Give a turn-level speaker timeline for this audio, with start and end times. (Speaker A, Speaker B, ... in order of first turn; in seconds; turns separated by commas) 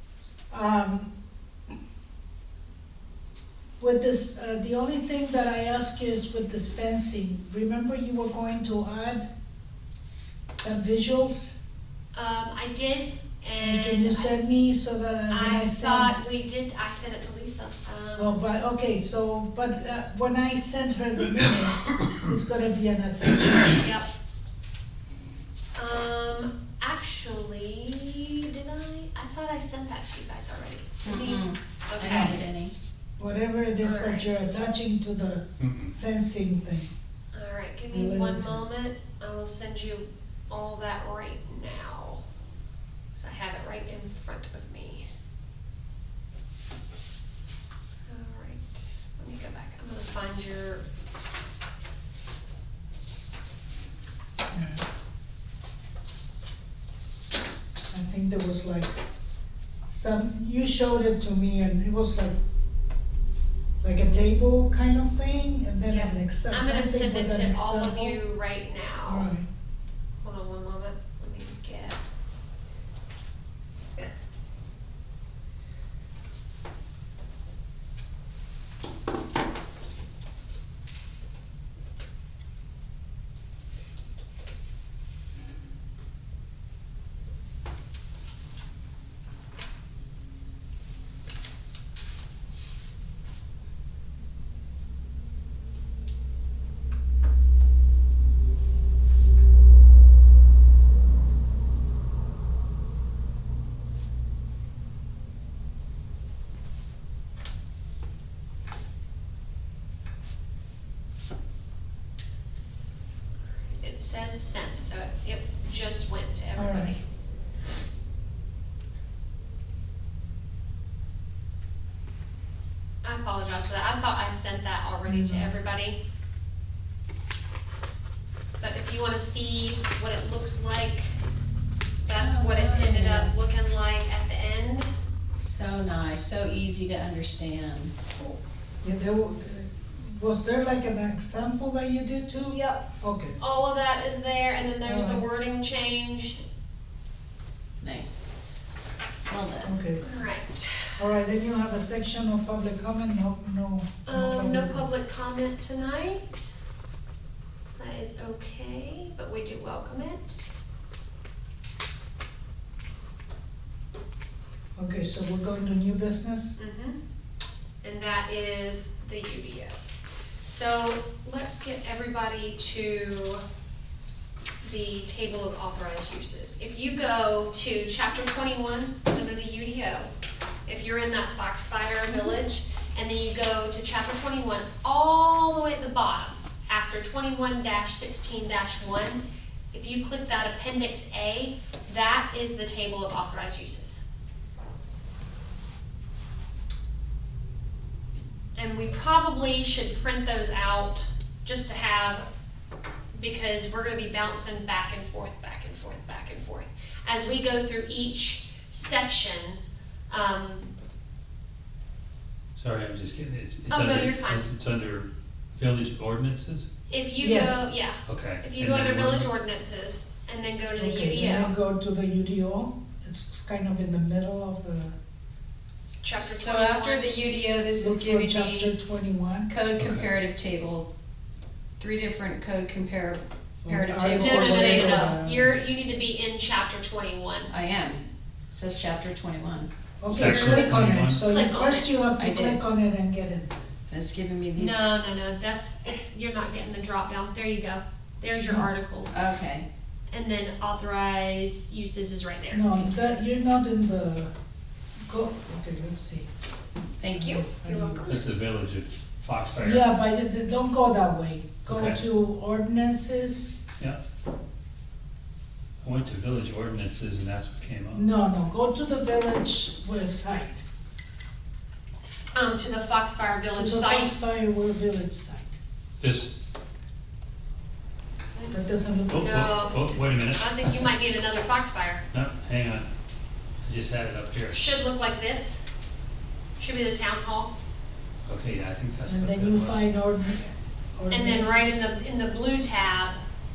Speaker A: 0.5-1.1, Speaker A: 3.8-9.3, Speaker A: 10.5-11.6, Speaker B: 12.1-14.4, Speaker A: 13.6-16.2, Speaker B: 15.3-18.4, Speaker A: 18.2-23.9, Speaker B: 23.8-24.1, Speaker B: 25.8-32.4, Speaker C: 31.0-32.7, Speaker A: 32.0-32.4, Speaker A: 33.2-36.9, Speaker B: 33.8-34.3, Speaker D: 35.6-35.9, Speaker B: 37.3-42.2, Speaker A: 37.9-38.7, Speaker B: 43.1-45.0, Speaker B: 48.1-50.8, Speaker A: 54.5-54.9, Speaker A: 57.9-59.0, Speaker A: 59.9-62.4, Speaker A: 63.8-68.2, Speaker B: 65.9-69.3, Speaker A: 69.1-69.5, Speaker B: 70.2-72.0, Speaker B: 113.6-117.0, Speaker A: 116.5-116.9, Speaker B: 123.0-126.0, Speaker A: 125.0-125.6, Speaker B: 128.6-131.1, Speaker B: 132.1-134.9, Speaker C: 132.2-133.5, Speaker C: 135.4-137.9, Speaker A: 138.8-143.4, Speaker B: 142.4-142.9, Speaker B: 143.4-146.4, Speaker A: 144.8-145.2, Speaker C: 147.8-148.3, Speaker C: 149.3-149.8, Speaker A: 149.6-150.2, Speaker B: 150.0-151.0, Speaker A: 151.0-154.9, Speaker B: 154.1-156.6, Speaker B: 157.8-160.5, Speaker A: 164.8-166.6, Speaker B: 166.6-167.0, Speaker B: 167.8-169.7, Speaker B: 170.5-173.4, Speaker B: 174.6-180.1, Speaker B: 180.7-194.0, Speaker B: 198.6-202.3, Speaker B: 203.2-210.7, Speaker D: 212.6-216.7, Speaker B: 213.7-214.4, Speaker B: 216.9-221.5, Speaker A: 217.2-217.7, Speaker D: 218.1-219.3, Speaker A: 220.8-225.0, Speaker B: 226.0-227.3, Speaker C: 226.1-228.7, Speaker A: 227.8-229.5, Speaker C: 229.5-230.9, Speaker D: 229.8-230.1, Speaker C: 231.8-235.1, Speaker A: 233.7-235.6, Speaker B: 234.2-237.5, Speaker C: 237.5-239.7, Speaker A: 240.0-243.7, Speaker D: 240.1-241.2, Speaker B: 240.2-241.9, Speaker C: 242.2-242.6, Speaker C: 243.9-244.8, Speaker B: 244.6-249.2, Speaker C: 249.1-249.7, Speaker B: 250.1-253.0, Speaker A: 252.5-254.3, Speaker A: 255.1-256.3, Speaker C: 257.0-257.8, Speaker A: 257.1-258.0, Speaker B: 257.4-258.3, Speaker D: 258.0-259.9, Speaker A: 259.6-263.6, Speaker D: 261.7-262.0, Speaker D: 265.8-268.1, Speaker A: 267.9-270.6, Speaker B: 272.4-274.1, Speaker A: 273.5-275.6, Speaker D: 276.0-276.3, Speaker A: 278.5-279.3, Speaker D: 279.1-280.9, Speaker B: 279.1-282.0, Speaker D: 282.1-282.9, Speaker D: 283.6-284.6, Speaker B: 284.5-285.6, Speaker B: 286.6-287.5, Speaker D: 288.3-289.9, Speaker A: 289.1-291.9, Speaker B: 291.1-293.2